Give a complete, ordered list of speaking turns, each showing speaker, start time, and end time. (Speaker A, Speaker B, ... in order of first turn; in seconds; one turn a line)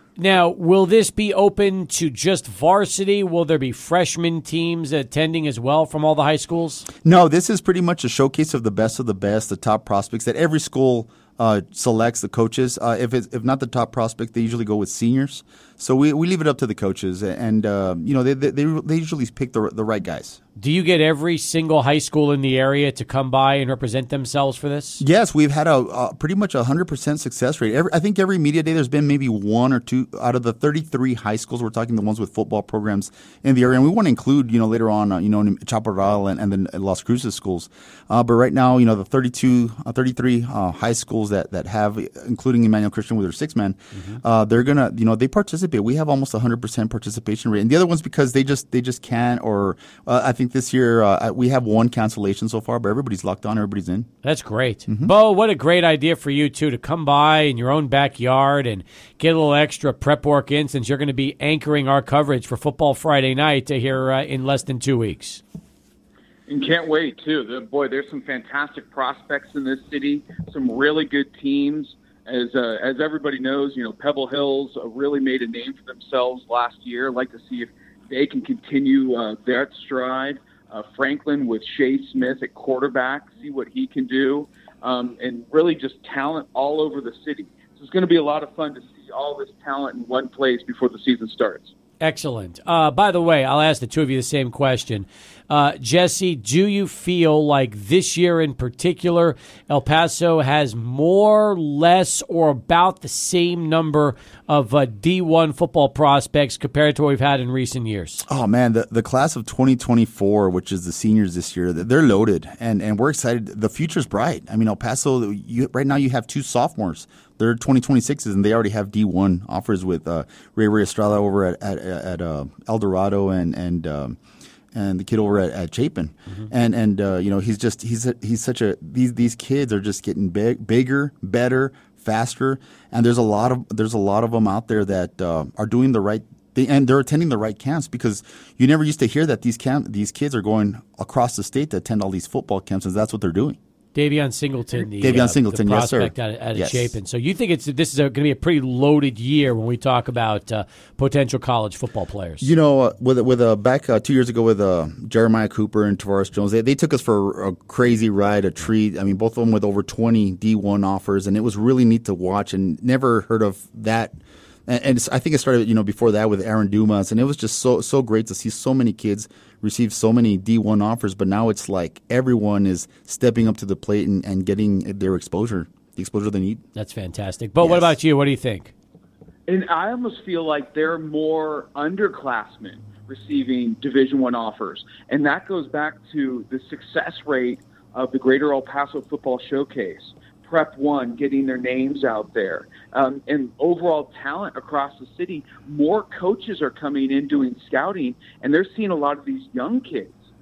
Speaker A: 0.2-6.8
Speaker B: 7.0-20.4
Speaker A: 20.6-25.0
Speaker B: 25.0-54.1
Speaker A: 43.9-44.2
Speaker A: 54.2-65.4
Speaker B: 54.9-55.1
Speaker C: 66.5-91.7
Speaker A: 92.0-108.2
Speaker B: 108.3-124.2
Speaker B: 124.7-143.6
Speaker A: 143.9-152.5
Speaker B: 144.8-146.9
Speaker B: 152.4-164.2
Speaker B: 164.7-176.6
Speaker A: 176.8-178.7
Speaker B: 177.6-177.9
Speaker C: 179.5-200.2